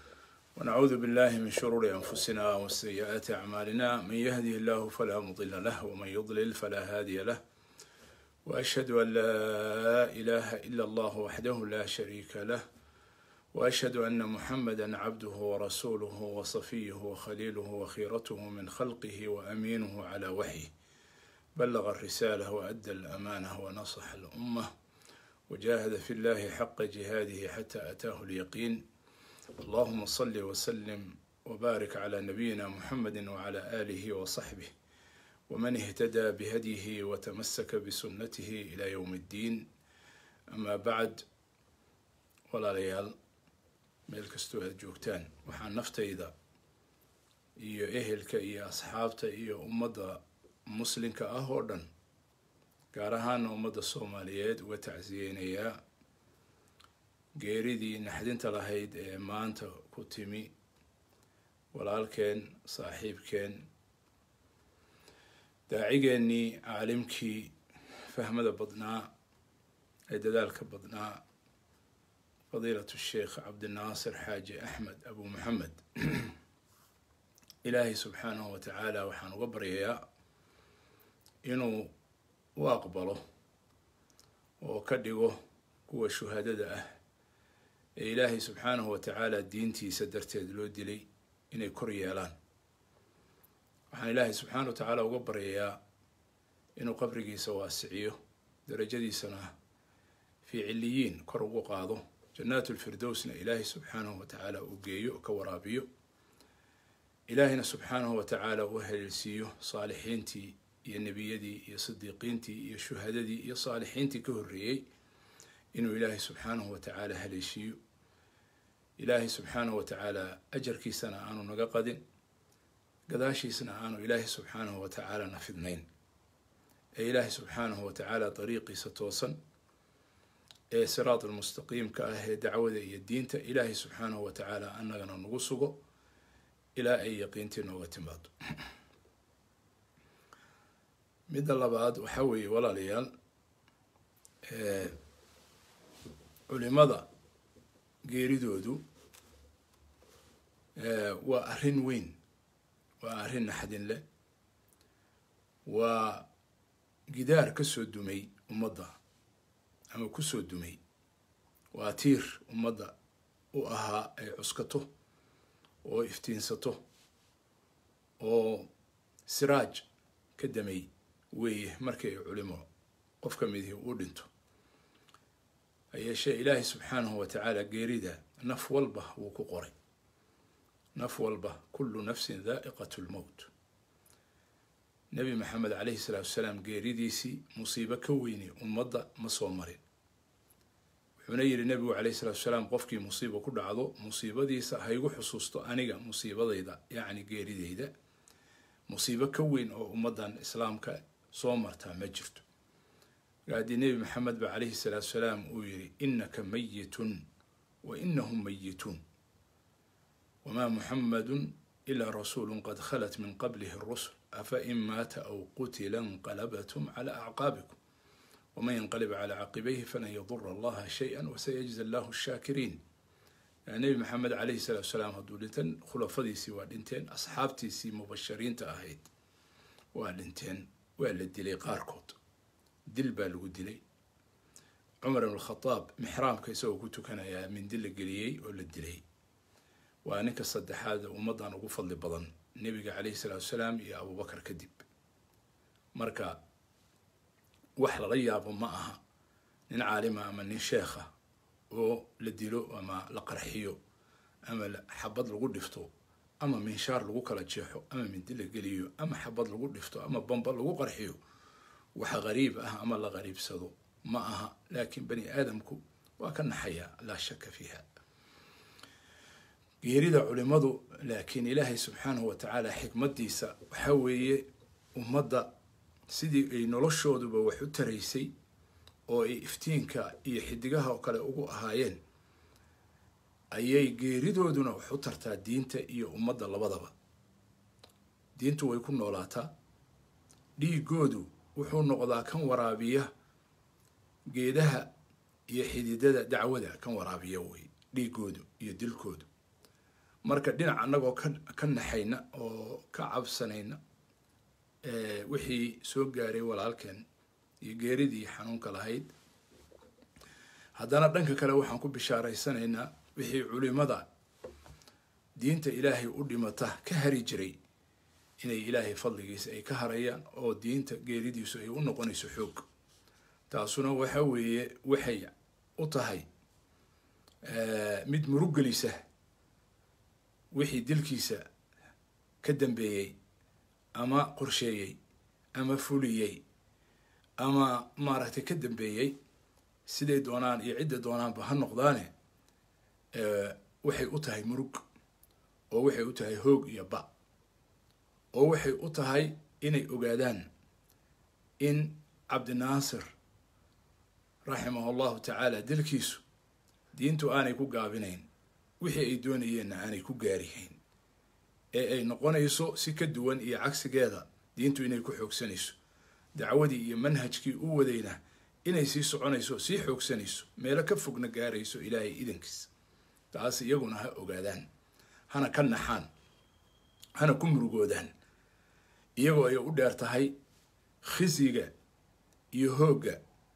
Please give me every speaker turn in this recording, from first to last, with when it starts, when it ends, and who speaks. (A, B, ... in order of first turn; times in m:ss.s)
0:00.6-0:07.4 A
0:08.4-0:12.6 A
0:13.5-0:20.7 A
0:21.5-0:24.7 A
0:25.5-0:28.8 A
0:29.6-0:34.7 A
0:35.5-0:39.7 A
0:40.5-0:41.2 A
0:42.5-0:43.1 A
0:44.1-0:46.3 A
0:47.6-0:51.9 A
0:52.9-0:55.8 A
0:57.3-1:00.5 A
1:01.7-1:03.7 A
1:05.7-1:07.5 A
1:08.1-1:09.1 A
1:10.1-1:11.2 A
1:12.5-1:16.4 A
1:17.6-1:20.0 A
1:21.4-1:21.9 A
1:22.6-1:23.2 A
1:24.6-1:26.9 A
1:28.0-1:32.4 A
1:33.9-1:35.8 A
1:36.8-1:39.5 A
1:40.4-1:45.9 A
1:47.3-1:54.9 A
1:55.7-1:57.8 A
1:59.0-2:02.0 A
2:03.1-2:05.9 A
2:07.0-2:09.4 A
2:10.7-2:15.8 A
2:16.8-2:18.3 A
2:21.3-2:23.1 A
2:24.4-2:25.0 A
2:26.5-2:27.1 A
2:28.0-2:28.8 A
2:30.8-2:32.2 A
2:33.0-2:34.0 A
2:35.6-2:36.3 A
2:37.1-2:39.0 A
2:39.9-2:40.8 A
2:41.7-2:43.0 A
2:43.5-2:44.9 A
2:45.8-2:46.8 A
2:48.2-2:48.7 A
2:49.2-2:49.8 A
2:50.4-2:52.7 A
2:53.2-2:54.3 A
2:55.9-2:59.7 A
3:00.9-3:03.5 A
3:05.1-3:09.8 A
3:11.2-3:17.9 A
3:18.9-3:22.4 A
3:23.5-3:27.2 A
3:27.8-3:29.0 A
3:30.4-3:37.8 A
3:38.5-3:42.8 A
3:43.7-3:49.1 A
3:49.9-3:52.2 A
3:52.9-3:53.8 A
3:55.0-3:59.0 A
4:00.0-4:04.8 A
4:05.9-4:06.4 A
4:07.8-4:09.0 A
4:09.7-4:11.1 A
4:11.7-4:13.8 A
4:14.4-4:21.2 A
4:21.9-4:27.8 A
4:29.8-4:35.5 A
4:36.1-4:38.3 A
4:39.1-4:42.0 A
4:43.5-4:46.9 A
4:48.4-4:49.5 A
4:50.6-4:53.1 A
4:54.3-4:54.9 A
4:55.5-4:59.3 A
5:00.2-5:03.8 A
5:04.8-5:07.0 A
5:07.6-5:09.1 A
5:10.7-5:14.1 A
5:15.3-5:17.6 A
5:18.4-5:22.6 A
5:23.5-5:26.3 A
5:27.4-5:29.0 A
5:30.5-5:31.4 A
5:32.4-5:33.2 A
5:34.0-5:35.0 A
5:35.5-5:36.4 A
5:37.4-5:39.2 A
5:39.8-5:42.1 A
5:43.1-5:44.8 A
5:45.7-5:47.1 A
5:48.3-5:50.5 A
5:51.6-5:53.1 A
5:54.4-5:56.2 A
5:56.9-5:58.3 A
5:58.8-6:00.8 A
6:01.7-6:05.8 A
6:06.3-6:12.7 A
6:13.3-6:14.7 A
6:15.3-6:16.1 A
6:17.2-6:18.1 A
6:19.2-6:20.3 A
6:21.0-6:21.7 A
6:22.5-6:23.2 A